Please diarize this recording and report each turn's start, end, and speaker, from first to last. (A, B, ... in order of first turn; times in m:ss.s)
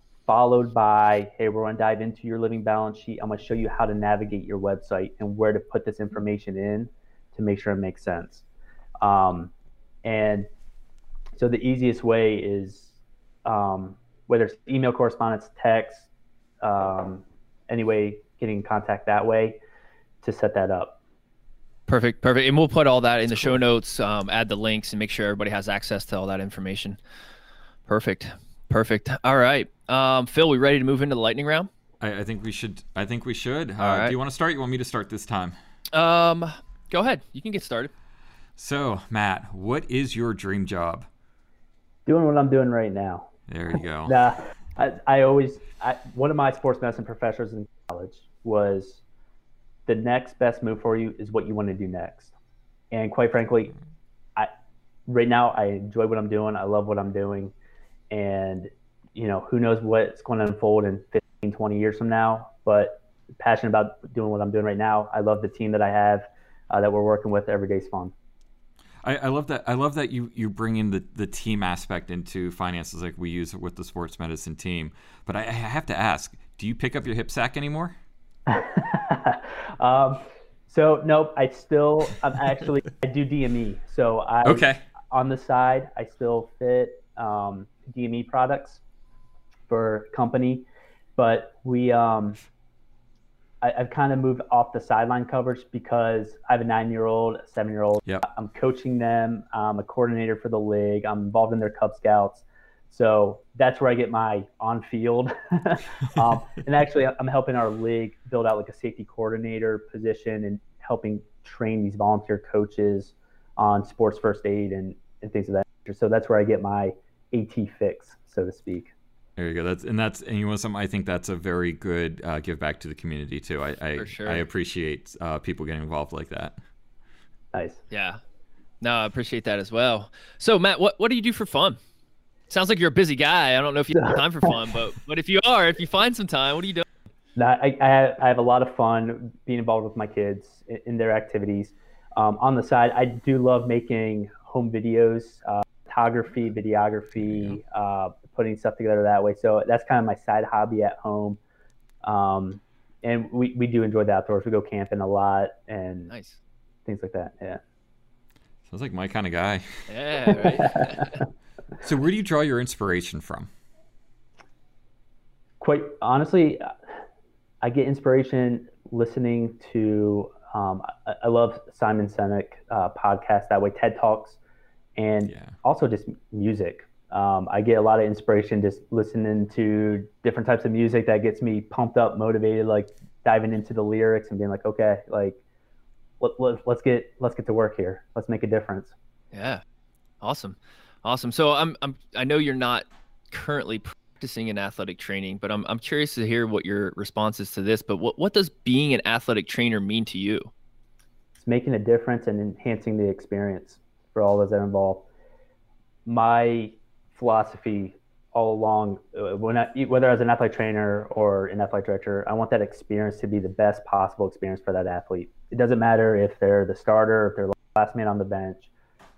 0:00.3-0:08.4 A
0:09.0-0:09.5 A
0:10.0-0:10.5 A
0:11.3-0:12.9 A
0:13.4-0:16.1 A
0:16.6-0:19.6 A
0:20.2-0:21.0 A
0:21.9-0:27.0 B
0:27.9-0:31.7 B
0:32.0-0:35.6 C
0:33.8-0:34.1 B
0:35.9-0:37.9 B
0:38.6-0:41.1 C
0:42.0-0:43.3 A
0:43.5-0:44.2 C
0:44.0-0:49.0 A
0:49.8-0:52.3 A
0:52.9-0:53.7 A
0:55.1-0:57.5 A
0:58.1-1:08.1 A
1:09.0-1:17.9 C
1:18.5-1:28.8 A
1:24.4-1:24.8 C
1:29.7-1:30.6 A
1:31.2-1:32.4 A
1:33.6-1:58.9 A
1:59.4-2:06.6 C
2:04.0-2:04.4 B
2:07.5-2:07.8 A
2:07.9-2:08.2 B
2:08.8-2:11.8 B
2:12.5-2:16.8 B
2:17.4-2:31.4 A
2:32.0-2:36.1 A
2:36.1-2:36.4 B
2:36.8-2:37.6 A
2:38.7-2:39.9 C
2:39.9-2:41.1 B
2:40.6-2:40.9 A
2:41.8-2:43.5 C
2:45.6-2:46.7 A
2:47.6-2:54.4 A
2:55.0-3:05.4 A
2:55.3-2:55.5 C
3:06.2-3:08.9 A
3:09.3-3:09.6 B
3:10.2-3:20.5 B
3:21.4-3:25.1 A
3:26.0-3:38.7 A